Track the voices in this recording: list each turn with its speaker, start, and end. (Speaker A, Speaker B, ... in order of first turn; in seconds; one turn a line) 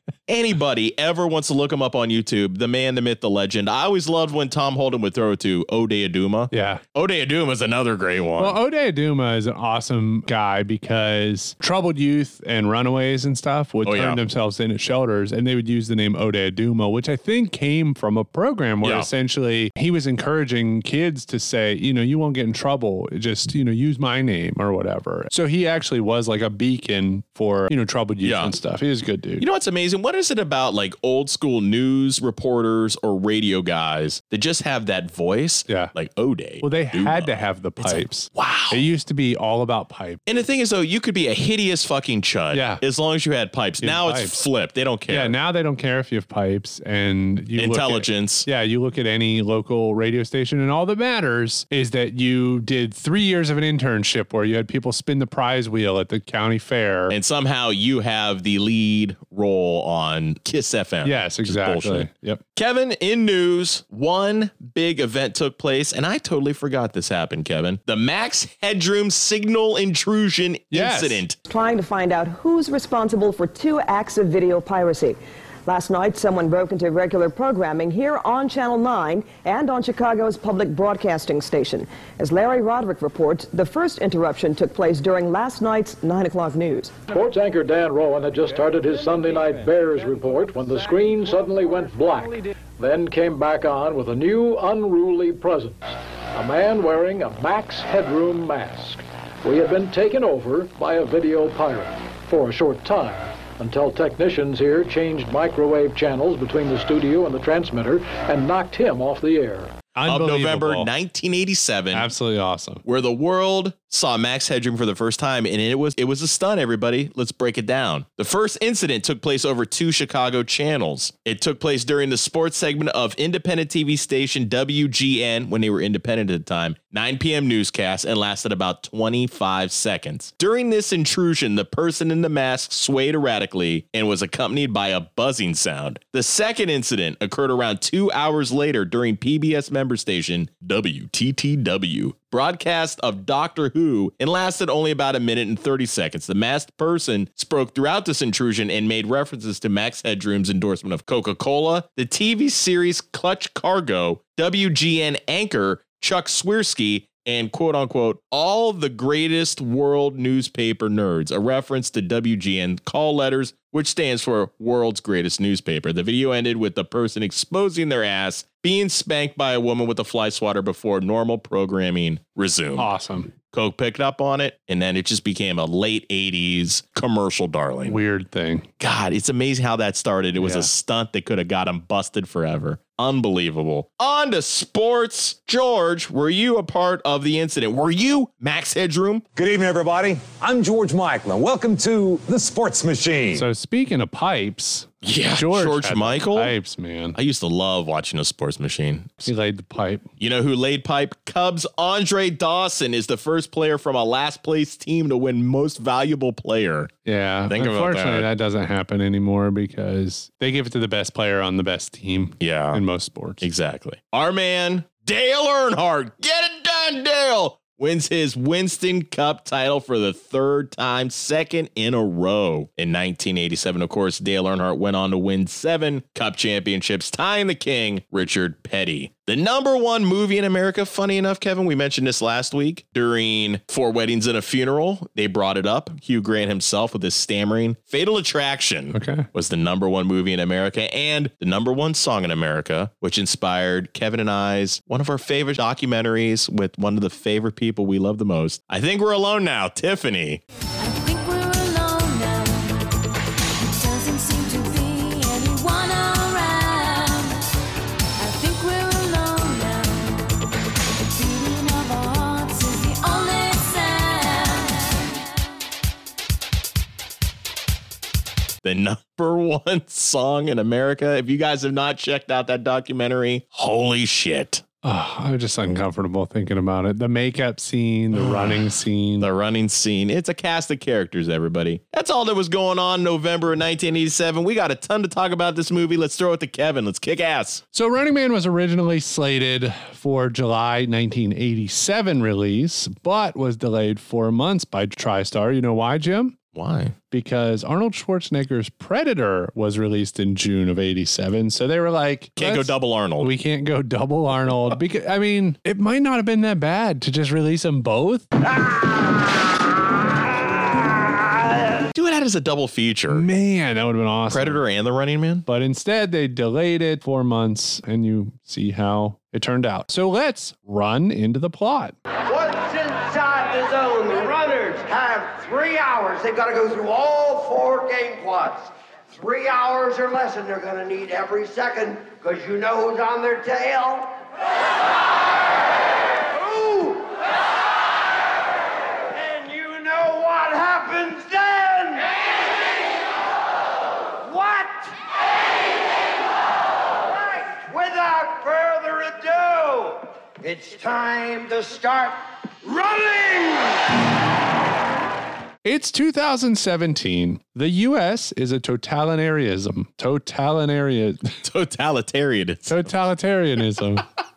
Speaker A: 0.3-8.6
Speaker B: 6.5-6.8
Speaker B: 8.4-29.4
Speaker A: 13.8-14.2
Speaker A: 18.8-19.1
Speaker A: 28.2-28.5
Speaker A: 29.4-38.8
Speaker B: 36.6-40.2
Speaker A: 40.2-45.4
Speaker B: 42.5-42.8
Speaker B: 43.8-44.4
Speaker B: 45.1-57.1
Speaker A: 47.5-48.5
Speaker A: 57.1-71.4
Speaker B: 61.0-62.4
Speaker B: 70.7-71.2
Speaker C: 71.5-87.0
Speaker D: 87.1-109.8
Speaker B: 109.9-110.9
Speaker A: 110.0-112.1
Speaker B: 111.9-112.8
Speaker A: 112.8-172.9
Speaker B: 172.8-173.3
Speaker A: 173.5-178.0
Speaker B: 177.8-178.7
Speaker A: 178.8-189.2
Speaker B: 180.4-180.7
Speaker E: 189.3-193.4
Speaker B: 193.3-197.2
Speaker A: 195.0-196.5
Speaker A: 197.1-199.3
Speaker B: 199.2-200.1
Speaker A: 200.2-206.9
Speaker B: 207.0-213.4
Speaker A: 207.5-208.3
Speaker A: 212.4-212.8
Speaker A: 213.4-250.4
Speaker B: 238.9-239.3
Speaker F: 250.8-252.8
Speaker F: 253.6-257.4
Speaker F: 258.2-260.2
Speaker F: 261.0-264.9
Speaker A: 268.6-274.6
Speaker B: 274.8-279.3
Speaker A: 278.1-278.6
Speaker A: 279.2-287.6
Speaker B: 287.7-296.4
Speaker A: 296.5-296.9
Speaker B: 297.1-308.3
Speaker A: 302.4-303.3
Speaker A: 311.9-313.3
Speaker B: 313.1-314.6
Speaker A: 314.3-315.4
Speaker B: 315.4-321.9
Speaker G: 322.2-334.2
Speaker G: 336.3-337.3
Speaker G: 339.1-342.3
Speaker G: 344.2-344.9
Speaker G: 347.0-353.9
Speaker B: 355.6-361.3
Speaker A: 361.4-362.9
Speaker B: 362.7-364.1